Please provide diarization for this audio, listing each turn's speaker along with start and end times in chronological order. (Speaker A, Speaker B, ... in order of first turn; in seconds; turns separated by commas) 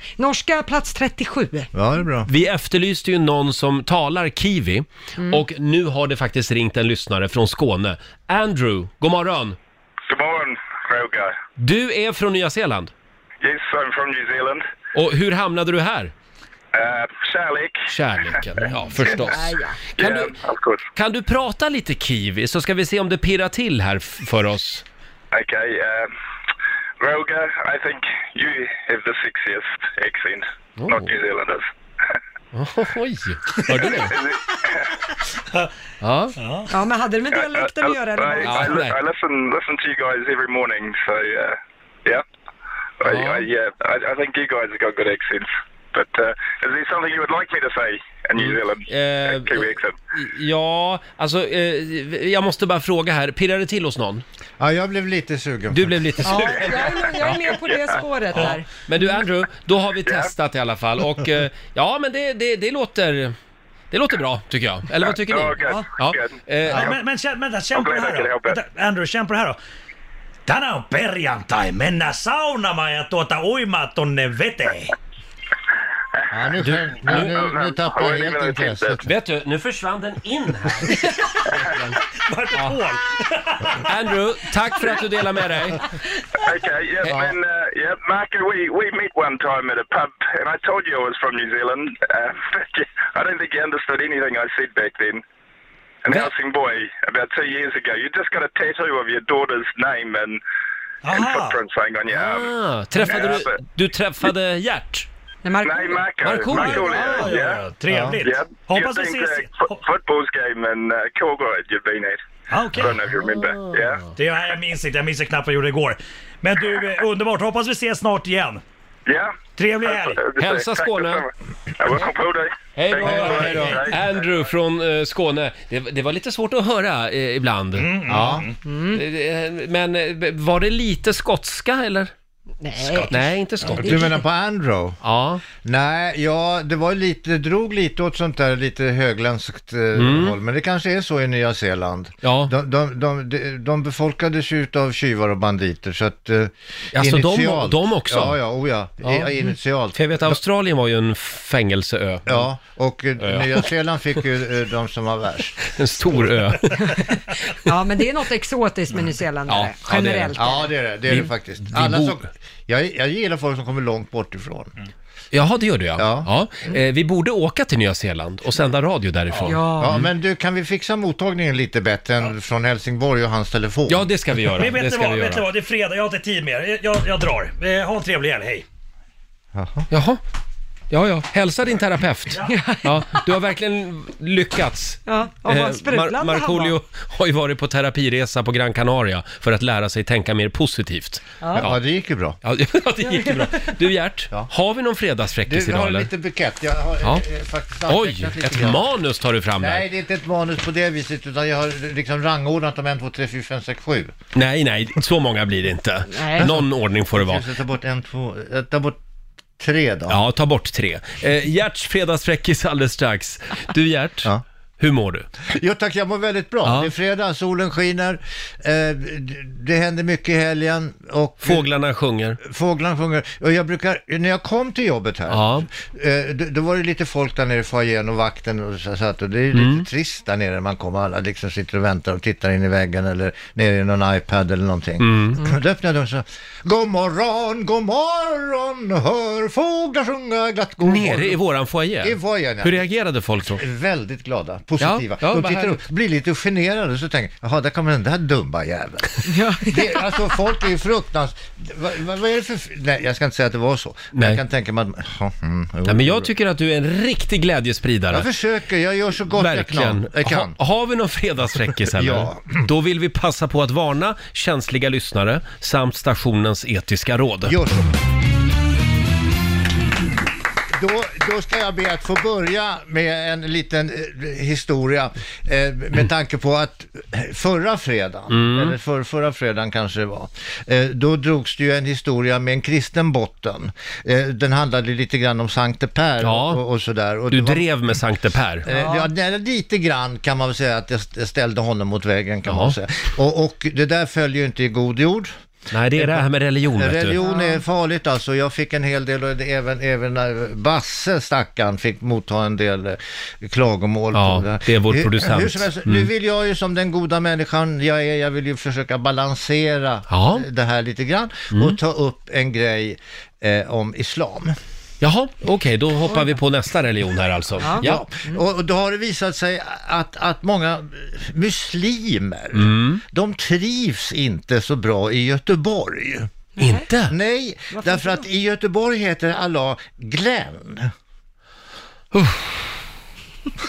Speaker A: 0.2-1.7, Speaker B: 1.7-2.3, Speaker C: 2.3-9.6, Speaker A: 5.2-5.4, Speaker D: 10.1-11.3, Speaker C: 11.6-12.9, Speaker D: 13.4-14.6, Speaker C: 14.9-16.1, Speaker D: 16.7-17.9, Speaker C: 17.9-20.4, Speaker A: 19.1-19.8, Speaker D: 20.0-20.8, Speaker C: 20.9-24.8, Speaker D: 25.3-26.1, Speaker D: 27.0-31.6, Speaker C: 30.8-31.1, Speaker C: 32.5-34.2, Speaker D: 33.8-34.9, Speaker C: 36.0-36.3, Speaker E: 36.4-36.7, Speaker A: 36.7-38.8, Speaker D: 37.4-42.2, Speaker C: 38.4-39.0, Speaker D: 43.0-50.0, Speaker C: 43.0-43.5, Speaker C: 48.4-54.2, Speaker B: 54.6-56.2, Speaker C: 55.7-57.5, Speaker A: 56.2-58.7, Speaker C: 58.3-63.4, Speaker C: 63.9-67.0, Speaker D: 65.1-67.0, Speaker A: 65.6-65.9, Speaker E: 66.7-69.5, Speaker D: 67.7-68.5, Speaker E: 70.5-74.9, Speaker B: 76.3-79.1, Speaker C: 76.6-77.5, Speaker D: 77.1-79.0, Speaker C: 79.0-82.0, Speaker E: 82.2-83.8, Speaker C: 82.5-82.8, Speaker C: 83.8-85.9, Speaker D: 86.4-95.2, Speaker C: 87.0-87.3, Speaker D: 96.0-100.4, Speaker E: 101.0-101.6, Speaker D: 101.1-102.5, Speaker C: 102.1-105.1, Speaker D: 103.0-103.5, Speaker A: 105.4-107.2, Speaker D: 105.6-107.6, Speaker C: 106.2-107.0, Speaker E: 106.8-109.8, Speaker D: 108.2-112.2, Speaker E: 112.5-113.0, Speaker D: 112.7-114.0, Speaker C: 112.8-114.0, Speaker E: 114.1-118.6, Speaker D: 119.1-124.1, Speaker E: 119.5-120.3, Speaker C: 120.3-121.2, Speaker C: 122.8-132.1, Speaker B: 123.0-123.8, Speaker E: 123.4-123.8, Speaker E: 127.8-128.5, Speaker B: 128.2-128.4, Speaker A: 128.6-129.0, Speaker A: 132.6-134.2, Speaker E: 132.8-133.3, Speaker C: 133.1-134.2, Speaker B: 133.8-135.0, Speaker C: 135.0-135.4, Speaker B: 135.6-150.4, Speaker C: 139.9-140.4, Speaker C: 142.2-142.5, Speaker C: 146.9-148.4, Speaker C: 149.0-149.3, Speaker C: 149.9-152.5, Speaker B: 152.3-155.7, Speaker C: 153.2-153.7, Speaker C: 155.6-157.1, Speaker A: 157.6-160.7, Speaker C: 159.5-162.2, Speaker B: 160.3-164.7, Speaker C: 165.3-170.1, Speaker B: 166.0-166.3, Speaker A: 169.4-170.0, Speaker B: 169.8-174.1, Speaker C: 173.9-175.4, Speaker E: 174.5-178.6, Speaker B: 179.5-179.9, Speaker C: 179.9-180.2, Speaker C: 180.9-191.8, Speaker A: 182.4-183.0, Speaker A: 185.1-186.8, Speaker A: 191.4-191.7, Speaker B: 191.5-192.4, Speaker C: 192.4-196.1, Speaker A: 193.1-193.5, Speaker B: 195.4-198.9, Speaker C: 197.9-199.9, Speaker B: 199.6-204.1, Speaker C: 204.3-207.5, Speaker A: 206.1-206.5, Speaker B: 206.4-209.0, Speaker B: 209.6-210.2, Speaker C: 210.1-215.3, Speaker B: 215.4-221.7, Speaker C: 216.6-216.9, Speaker C: 221.4-222.4, Speaker B: 222.4-241.4, Speaker C: 225.3-225.7, Speaker C: 229.5-229.8, Speaker C: 235.0-235.4, Speaker C: 240.8-243.6, Speaker B: 242.0-242.8, Speaker B: 243.6-256.3, Speaker C: 244.8-245.8, Speaker A: 249.2-250.1, Speaker C: 254.1-254.4, Speaker C: 255.8-258.3, Speaker B: 258.1-260.6, Speaker C: 259.3-267.6, Speaker B: 261.8-262.7, Speaker B: 267.4-267.9, Speaker B: 270.8-287.6, Speaker C: 278.3-278.7, Speaker C: 286.2-286.6, Speaker C: 287.3-288.7, Speaker B: 288.6-295.3, Speaker A: 288.6-289.1, Speaker C: 292.5-292.8, Speaker C: 295.7-297.2, Speaker B: 295.9-314.6, Speaker A: 297.1-297.6, Speaker C: 304.1-306.1, Speaker C: 310.1-310.4, Speaker C: 311.5-311.8, Speaker C: 315.0-318.0, Speaker A: 317.6-318.4, Speaker B: 317.7-326.3, Speaker C: 322.5-323.0, Speaker A: 326.6-326.9, Speaker C: 326.6-327.1, Speaker B: 327.1-330.9, Speaker A: 327.7-328.2, Speaker C: 332.1-332.7